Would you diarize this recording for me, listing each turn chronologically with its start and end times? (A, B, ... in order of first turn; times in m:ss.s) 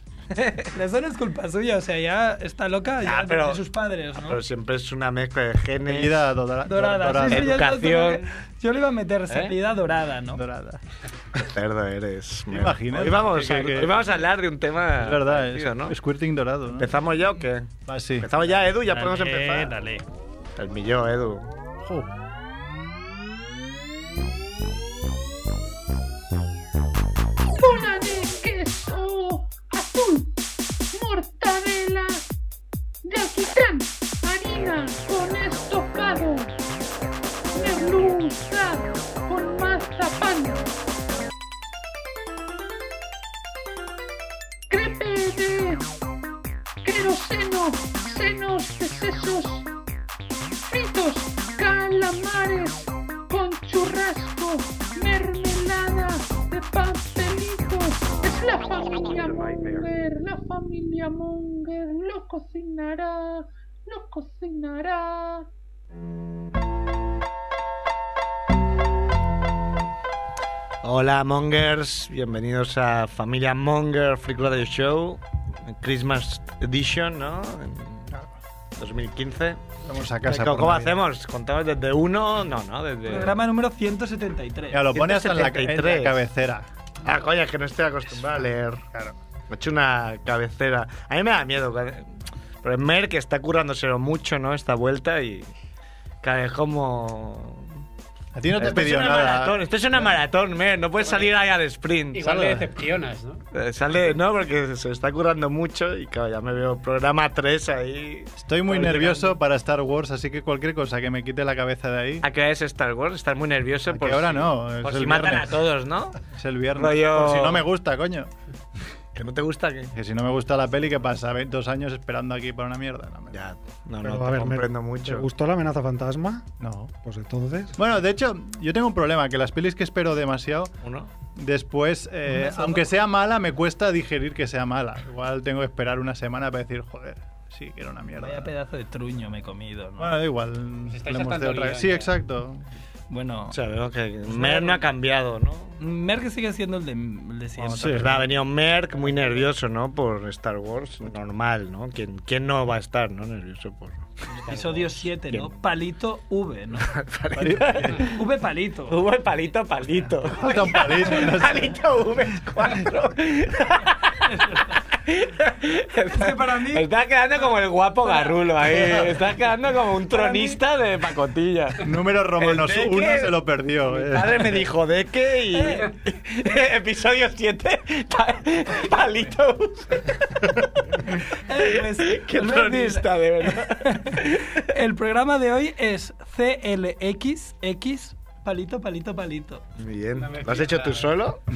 0:00.3-0:00.7 A
0:00.7-0:04.4 B
0:03.0-0:03.6 A
0:04.1-0:06.2 A
0:05.8-0:07.6 C
0:06.6-0:10.4 B
0:07.3-0:08.2 A
0:09.3-0:09.5 A
0:10.3-0:10.8 C
0:11.3-0:15.9 A
0:12.5-0:14.0 C
0:15.0-0:16.9 C
0:16.8-0:19.7 A
0:17.8-0:18.3 C
0:18.9-0:20.0 B
0:20.6-0:21.5 A
0:21.8-0:22.1 C
0:27.5-0:30.4 D
0:30.9-0:32.2 D
0:33.0-0:36.6 D
0:37.5-0:40.7 D
0:44.7-0:45.8 D
0:46.8-0:49.7 D
0:50.6-1:05.5 D
1:10.8-1:18.1 A
1:18.8-1:19.6 A
1:19.8-1:21.0 C
1:20.2-1:23.4 A
1:23.1-1:24.8 B
1:24.7-1:26.7 C
1:24.9-1:26.2 A
1:27.0-1:28.8 A
1:29.5-1:35.5 A
1:36.2-1:37.7 A
1:38.3-1:40.1 C
1:38.6-1:42.5 A
1:42.1-1:43.4 E
1:42.2-1:42.6 C
1:43.5-1:49.3 A
1:48.4-1:52.2 C
1:52.2-1:56.2 A
1:53.9-1:55.6 C
1:56.2-1:58.3 C
1:56.7-1:57.6 A
1:59.1-1:59.9 A
1:59.9-2:03.4 C
2:03.3-2:05.2 A
2:04.0-2:06.4 F
2:06.6-2:06.9 C
2:07.0-2:07.7 F
2:07.7-2:10.7 C
2:10.8-2:11.1 A
2:11.3-2:18.5 C
2:12.3-2:12.8 B
2:18.1-2:20.1 B
2:20.0-2:22.6 C
2:20.9-2:22.1 E
2:23.1-2:23.6 B
2:23.5-2:25.8 A
2:24.3-2:24.8 B
2:25.8-2:28.2 B
2:27.6-2:28.1 C
2:27.8-2:35.5 A
2:34.4-2:36.9 B
2:36.8-2:38.1 A
2:37.4-2:38.0 C
2:38.0-2:39.0 B
2:38.9-2:44.2 A
2:40.2-2:41.8 C
2:44.2-2:44.8 B
2:44.9-3:04.6 A
2:46.1-2:46.9 B
2:50.1-2:50.6 B
2:51.8-2:54.7 C
2:55.5-2:55.9 B
3:01.4-3:09.6 B
3:09.8-3:11.4 A
3:10.2-3:11.1 E